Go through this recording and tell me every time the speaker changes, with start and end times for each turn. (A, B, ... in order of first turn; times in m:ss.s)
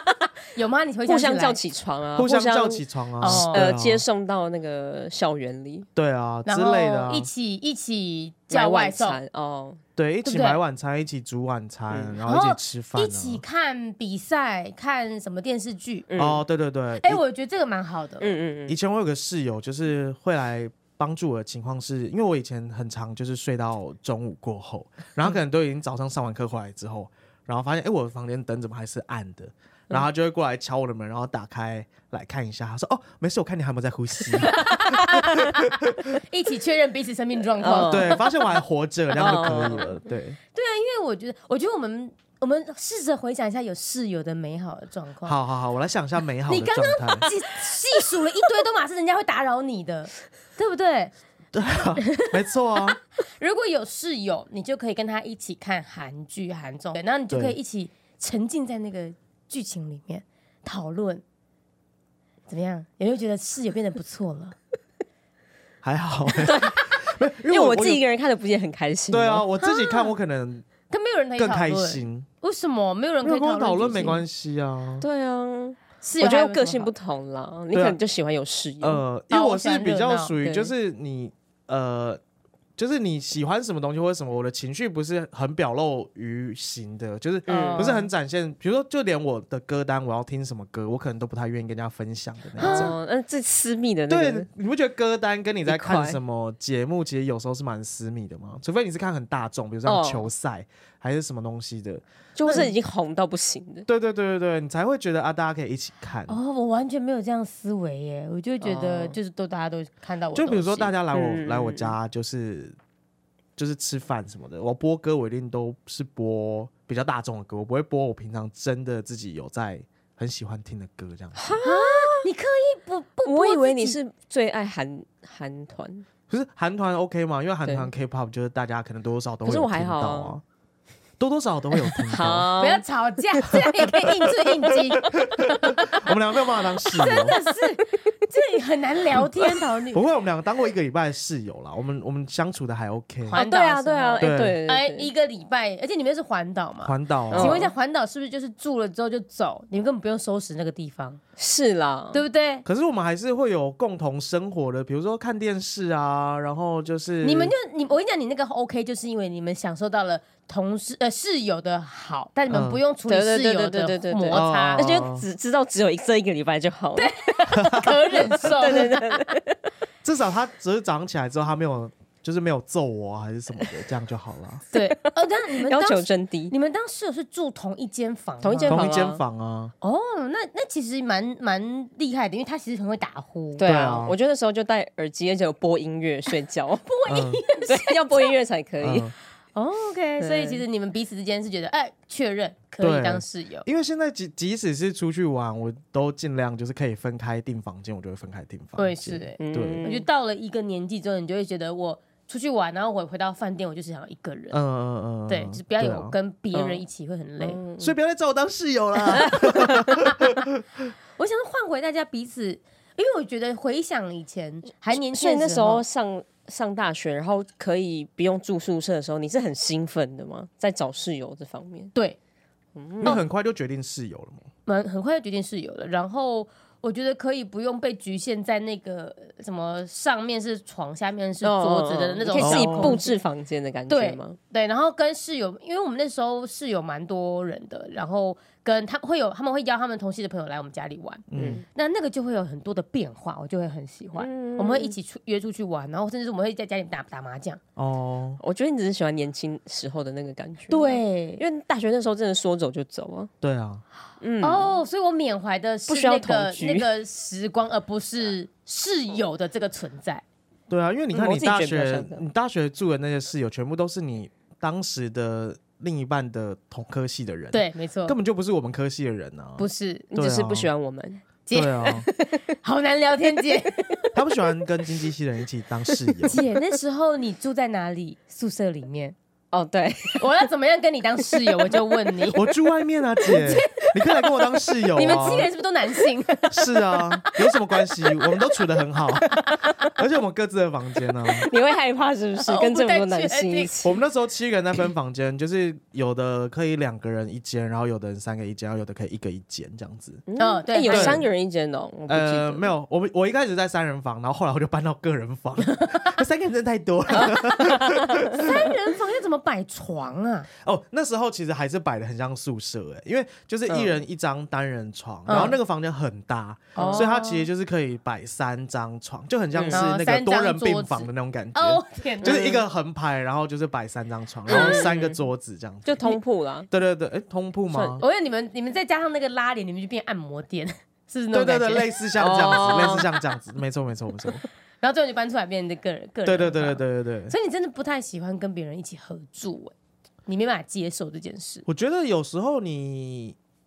0:00.6-0:01.6 A
0:01.1-0:05.9 B
0:02.2-0:04.0 C
0:03.2-0:03.7 A
0:06.0-0:07.3 C
0:06.5-0:09.2 A
0:08.5-0:09.8 B
0:10.0-0:13.4 C
0:10.2-0:10.6 A
0:11.9-0:12.2 B
0:12.2-0:16.1 A
0:16.1-0:16.4 B
0:16.2-0:17.2 C
0:17.0-0:18.3 A
0:18.2-0:18.8 B
0:18.7-0:36.2 C
0:34.5-0:35.6 A
0:36.1-0:38.3 A
0:37.6-0:38.3 B
0:37.7-0:40.4 C
0:39.2-0:39.9 B
0:39.2-0:39.6 A
0:40.6-0:45.4 A
0:45.2-0:47.3 C
0:46.5-0:51.1 A
0:51.5-0:53.0 C
0:52.0-0:52.3 A
0:53.4-1:01.2 A
0:57.3-0:57.6 C
1:02.5-1:04.6 A
1:05.8-1:08.0 C
1:06.4-1:06.9 B
1:07.5-1:09.5 B
1:09.1-1:10.7 C
1:09.6-1:10.1 A
1:10.9-1:14.2 A
1:11.4-1:12.3 C
1:13.2-1:15.1 C
1:15.0-1:19.0 B
1:16.0-1:16.9 A
1:17.7-1:18.0 C
1:18.8-1:22.2 C
1:19.3-1:20.3 A
1:20.4-1:20.7 B
1:22.8-1:33.0 C
1:27.5-1:28.0 B
1:27.5-1:28.1 A
1:32.6-1:34.5 B
1:32.6-1:32.9 A
1:34.1-1:42.7 C
1:35.7-1:36.2 B
1:39.9-1:40.3 B
1:42.4-1:43.9 B
1:43.9-1:46.4 C
1:46.3-1:50.9 A
1:48.6-1:49.2 B
1:50.3-1:52.8 C
1:51.1-1:52.0 B
1:53.6-2:01.6 C
2:01.4-2:02.3 B
2:01.6-2:04.0 A
2:03.2-2:06.0 B
2:06.3-2:10.4 C
2:09.4-2:10.4 B
2:11.2-2:12.5 C
2:11.8-2:12.8 B
2:12.6-2:16.1 A
2:13.6-2:17.4 C
2:16.9-2:20.0 A
2:19.9-2:23.4 C
2:23.3-2:25.1 B
2:23.3-2:31.2 A
2:24.2-2:24.6 C
2:26.8-2:27.7 C
2:27.3-2:27.7 B
2:31.4-2:32.2 B
2:32.1-2:32.7 A
2:32.6-2:37.5 C
2:37.2-2:45.0 A
2:42.5-2:42.8 C
2:43.0-2:49.6 B
2:44.3-2:45.3 C
2:47.0-2:49.4 A
2:47.5-2:47.9 C
2:50.0-2:54.6 C
2:54.7-2:58.8 A
2:54.8-2:56.5 B
2:58.4-2:59.2 B
2:58.7-2:59.7 C
2:59.8-3:04.1 A
3:03.6-3:06.9 B
3:03.6-3:04.2 C
3:06.9-3:08.3 A
3:07.1-3:07.4 C
3:07.6-3:09.1 B
3:08.8-3:09.1 C
3:09.6-3:13.7 A
3:10.2-3:10.6 B
3:12.8-3:19.8 C
3:18.8-3:24.6 A
3:19.4-3:20.1 B
3:24.5-3:26.2 C
3:25.3-3:27.6 A
3:26.5-3:26.8 B
3:27.4-3:28.0 B
3:27.8-3:30.6 C
3:29.1-3:30.1 B
3:31.2-3:35.8 A
3:34.9-3:41.9 B
3:42.8-3:43.2 B
3:43.0-3:44.5 C
3:44.7-3:53.1 A
3:51.4-3:54.4 B
3:52.4-3:53.0 C
3:53.9-4:07.6 A
4:01.3-4:01.6 C
4:01.4-4:01.6 B
4:04.2-4:05.0 B
4:07.8-4:08.4 C
4:08.4-4:13.3 B
4:10.7-4:11.4 A
4:13.4-4:13.8 C
4:14.2-4:14.8 B
4:14.4-4:20.2 A
4:15.9-4:16.9 B
4:20.7-4:30.7 C
4:21.1-4:22.2 B
4:27.5-4:28.2 A
4:29.6-4:30.1 A
4:30.1-4:31.2 B
4:31.5-4:34.2 A
4:31.5-4:32.1 C
4:34.1-4:36.4 C
4:36.2-4:39.2 A
4:39.5-4:40.3 B
4:40.2-4:42.5 A
4:41.4-4:42.0 B
4:42.3-4:45.5 C
4:43.3-4:44.2 A
4:44.9-4:48.6 A
4:46.5-4:49.4 C
4:49.3-4:49.7 A
4:49.9-4:51.5 C
4:51.4-4:54.0 B
4:52.5-4:53.7 A
4:53.8-5:00.2 C
5:00.3-5:02.7 B
5:00.4-5:01.2 A
5:00.9-5:01.3 C
5:02.1-5:08.6 C
5:05.7-5:06.1 A
5:07.2-5:08.2 B
5:08.3-5:10.5 A
5:10.6-5:26.2 C
5:13.7-5:14.0 B
5:15.3-5:15.6 A
5:16.8-5:17.5 A
5:16.8-5:17.1 B
5:19.5-5:19.8 B
5:19.7-5:22.6 A
5:22.2-5:22.6 B
5:24.5-5:24.9 A
5:24.5-5:25.2 B
5:25.8-5:26.7 B
5:26.7-5:28.0 C
5:27.7-5:28.0 B
5:28.0-5:32.0 A
5:31.3-5:34.4 C
5:32.2-5:33.1 B
5:34.8-5:39.7 A
5:36.2-5:37.3 C
5:40.3-5:41.6 A
5:41.7-5:43.4 C